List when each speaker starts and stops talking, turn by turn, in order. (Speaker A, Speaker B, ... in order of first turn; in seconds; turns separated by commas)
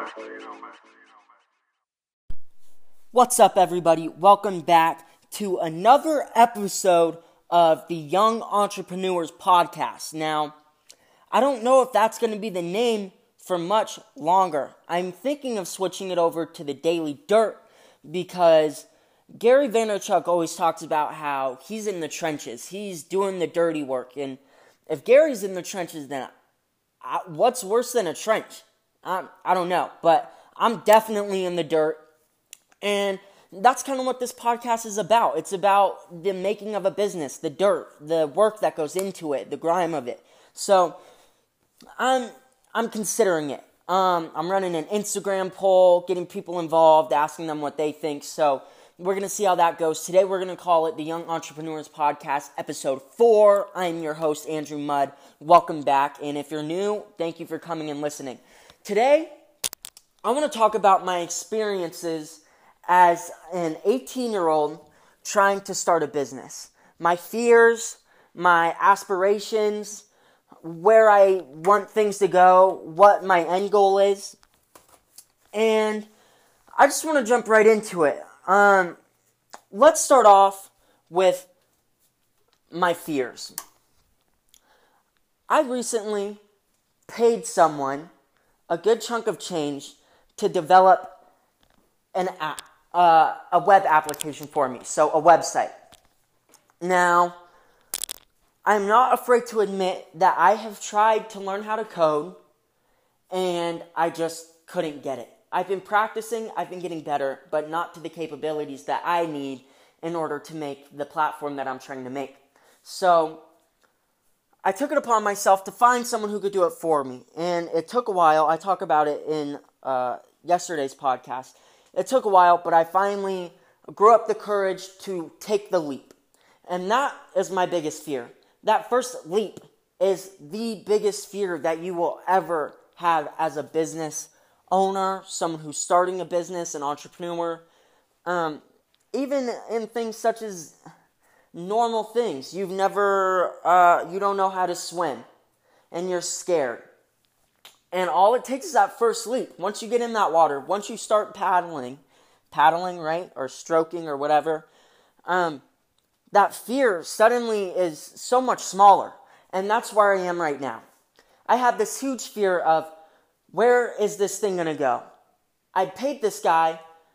Speaker A: 3.1-10.5, Speaker A: 11.3-26.3, Speaker A: 27.0-32.0, Speaker A: 32.8-41.0, Speaker A: 42.0-59.3, Speaker A: 60.2-70.0, Speaker A: 70.6-74.4, Speaker A: 75.5-76.1, Speaker A: 76.8-79.0, Speaker A: 79.7-81.5, Speaker A: 82.7-83.5, Speaker A: 85.5-86.4, Speaker A: 87.1-88.1, Speaker A: 88.7-91.2, Speaker A: 92.1-95.7, Speaker A: 96.8-97.4, Speaker A: 98.6-102.4, Speaker A: 103.3-113.4, Speaker A: 114.6-126.2, Speaker A: 126.7-137.7, Speaker A: 138.2-138.6, Speaker A: 139.1-140.8, Speaker A: 141.5-145.2, Speaker A: 145.9-146.9, Speaker A: 147.9-154.7, Speaker A: 155.3-155.6, Speaker A: 156.3-160.8, Speaker A: 161.5-162.9, Speaker A: 163.5-165.0, Speaker A: 165.7-166.8